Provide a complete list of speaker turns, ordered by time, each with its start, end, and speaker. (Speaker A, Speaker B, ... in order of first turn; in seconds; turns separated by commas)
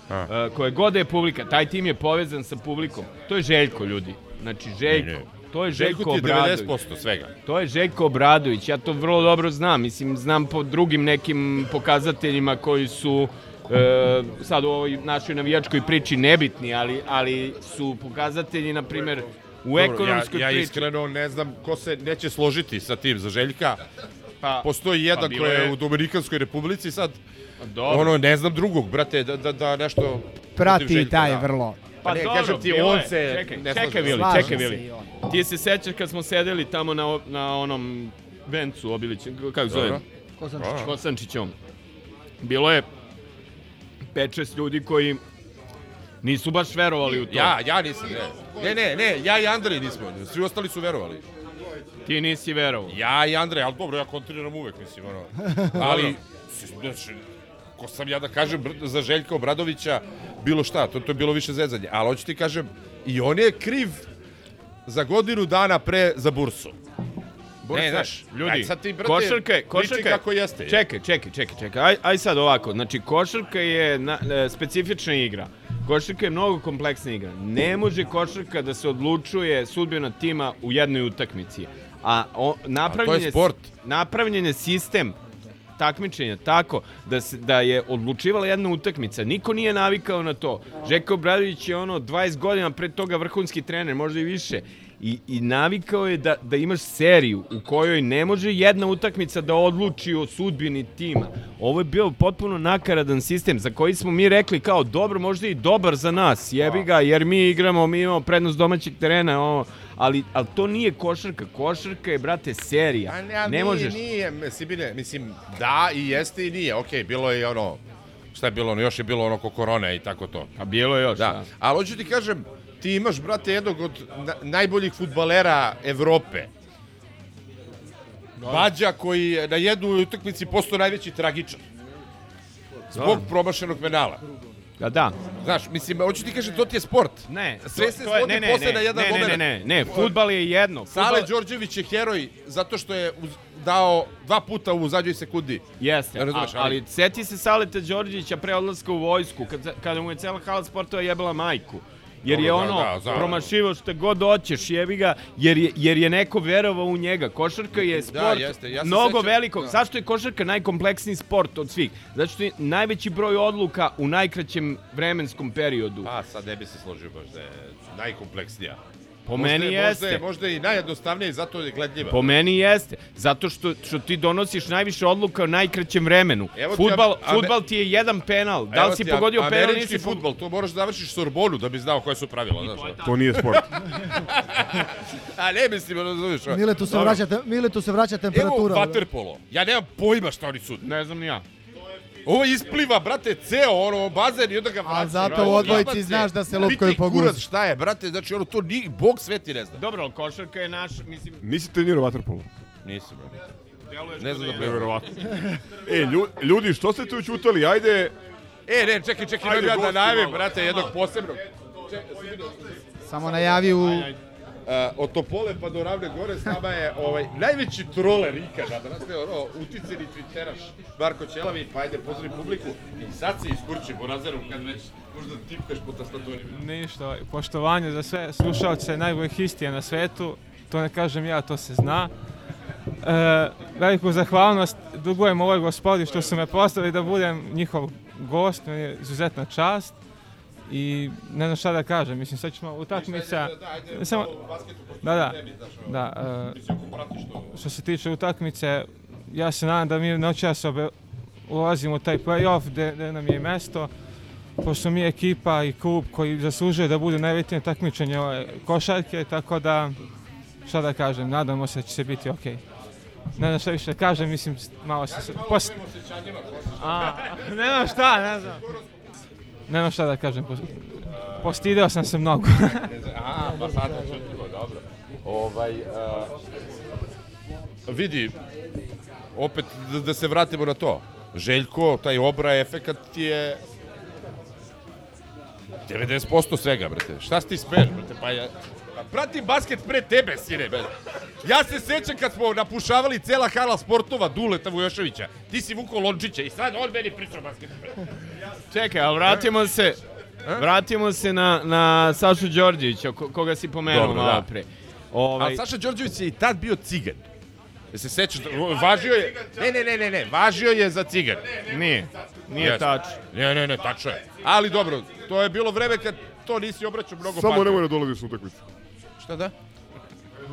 Speaker A: 0.3-6.7, Speaker B: 4.9-7.3, Speaker A: 7.4-20.9, Speaker B: 18.9-19.2, Speaker B: 19.7-23.8, Speaker A: 24.4-25.8, Speaker B: 24.6-27.2, Speaker A: 27.6-28.1, Speaker B: 27.8-31.5, Speaker C: 30.6-31.8, Speaker B: 32.0-34.6, Speaker A: 32.0-40.0, Speaker C: 34.0-35.1, Speaker B: 39.7-40.0, Speaker D: 40.4-40.8, Speaker B: 40.6-40.9, Speaker A: 40.8-41.5, Speaker A: 42.4-42.9, Speaker A: 44.1-45.2, Speaker A: 46.2-47.5, Speaker B: 47.3-51.2, Speaker A: 52.0-53.0, Speaker B: 52.9-57.2, Speaker A: 55.8-56.1, Speaker B: 57.8-64.0, Speaker B: 64.8-66.8, Speaker A: 67.6-85.2, Speaker B: 67.7-70.8, Speaker B: 82.8-83.7, Speaker A: 85.8-114.0, Speaker B: 106.6-106.9, Speaker B: 113.0-117.8, Speaker B: 118.3-120.5, Speaker A: 120.6-121.5, Speaker B: 121.1-126.5, Speaker A: 128.4-128.7, Speaker B: 128.4-131.6, Speaker B: 132.9-134.2, Speaker A: 132.9-133.2, Speaker A: 134.8-135.2, Speaker B: 135.4-140.3, Speaker A: 137.3-141.3, Speaker B: 140.8-146.8, Speaker A: 145.8-166.1, Speaker B: 152.2-153.5, Speaker B: 157.7-159.8, Speaker B: 166.0-168.8, Speaker A: 169.3-170.2, Speaker B: 169.3-172.4, Speaker A: 172.1-180.2, Speaker B: 176.5-177.6, Speaker B: 178.7-187.2, Speaker A: 182.6-183.5, Speaker E: 183.0-183.7, Speaker D: 186.5-189.0, Speaker B: 188.3-190.9, Speaker A: 190.8-191.4, Speaker B: 192.2-199.8, Speaker C: 194.8-197.4, Speaker A: 195.2-196.1, Speaker A: 199.8-201.4, Speaker E: 201.4-202.5, Speaker B: 202.8-203.3, Speaker A: 204.0-205.1, Speaker B: 204.2-205.1, Speaker E: 205.9-208.1, Speaker B: 208.7-212.7, Speaker E: 209.4-210.4, Speaker C: 213.1-214.1, Speaker B: 213.4-214.1, Speaker B: 214.7-226.6, Speaker F: 226.5-232.1, Speaker F: 233.0-240.0, Speaker F: 240.7-244.3, Speaker B: 242.9-247.5, Speaker F: 245.0-246.6, Speaker F: 247.5-262.6, Speaker F: 263.4-265.7, Speaker B: 265.1-267.4, Speaker F: 267.3-268.6, Speaker B: 268.2-268.8, Speaker F: 269.7-272.9, Speaker B: 272.9-276.3, Speaker B: 277.9-278.3, Speaker B: 279.3-283.6, Speaker B: 285.9-290.9, Speaker B: 291.4-298.0, Speaker A: 298.7-300.0, Speaker A: 300.6-305.6, Speaker B: 303.9-304.5, Speaker B: 305.4-307.2, Speaker B: 307.9-311.6, Speaker A: 311.7-313.2, Speaker B: 312.6-317.8, Speaker E: 317.2-318.7, Speaker B: 319.2-319.5